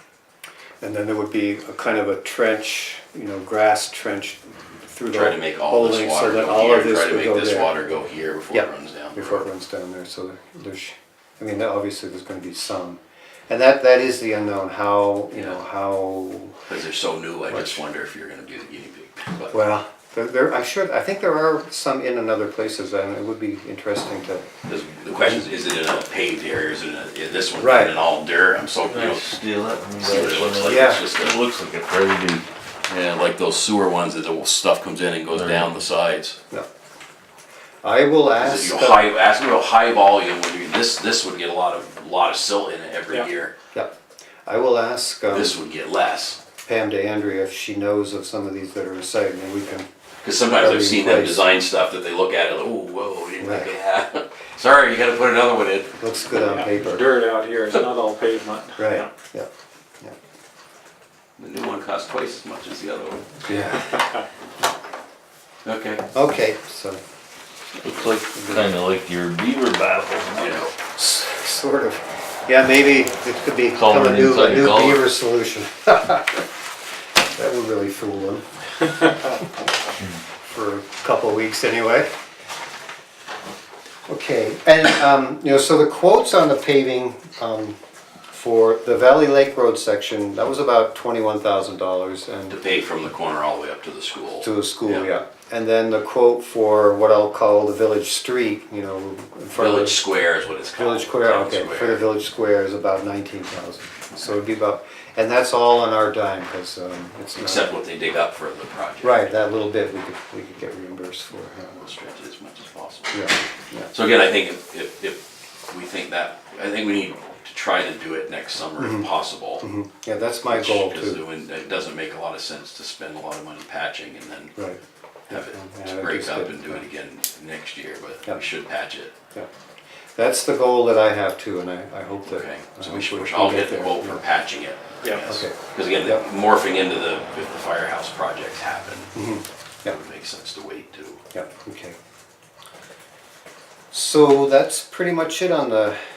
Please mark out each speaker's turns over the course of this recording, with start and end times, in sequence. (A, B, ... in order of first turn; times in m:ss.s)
0:00.8-0:07.9 A
0:05.1-0:09.5 B
0:08.5-0:16.6 A
0:15.3-0:15.6 B
0:16.7-0:19.6 B
0:17.5-0:17.8 A
0:19.5-0:24.4 A
0:24.7-0:29.4 B
0:25.2-0:25.4 A
0:27.6-0:28.0 A
0:28.9-0:32.4 C
0:30.0-0:31.4 B
0:30.6-0:31.0 A
0:32.9-0:36.4 B
0:35.3-0:35.7 C
0:37.8-0:39.1 A
0:38.4-0:43.5 B
0:44.4-0:45.6 A
0:45.2-0:46.4 B
0:46.6-0:49.9 A
0:50.2-0:56.0 B
0:50.4-0:51.4 A
0:53.4-0:53.7 A
0:56.0-0:57.1 A
0:56.4-0:59.1 D
0:58.8-0:59.5 A
1:01.4-1:03.3 B
1:03.4-1:04.1 A
1:05.6-1:06.0 B
1:06.1-1:07.0 A
1:07.8-1:10.6 C
1:08.3-1:08.7 A
1:10.4-1:10.7 B
1:10.8-1:16.4 A
1:13.7-1:15.0 C
1:17.3-1:18.4 A
1:20.5-1:22.1 A
1:24.1-1:27.8 A
1:28.3-1:32.6 A
1:32.5-1:35.0 B
1:34.4-1:40.0 A
1:39.5-1:42.0 B
1:40.8-1:47.7 A
1:47.4-1:49.3 B
1:49.0-1:51.8 A
1:51.7-1:53.2 B
1:53.1-1:53.9 A
1:53.9-1:59.6 B
1:58.8-1:59.1 A
1:59.6-2:01.2 A
2:00.5-2:04.6 B
2:04.6-2:06.9 A
2:05.3-2:09.1 B
2:10.2-2:14.2 A
2:12.2-2:19.2 B
2:15.2-2:16.2 A
2:19.1-2:20.0 A
2:19.8-2:21.2 B
2:21.3-2:22.0 A
2:23.9-2:26.0 A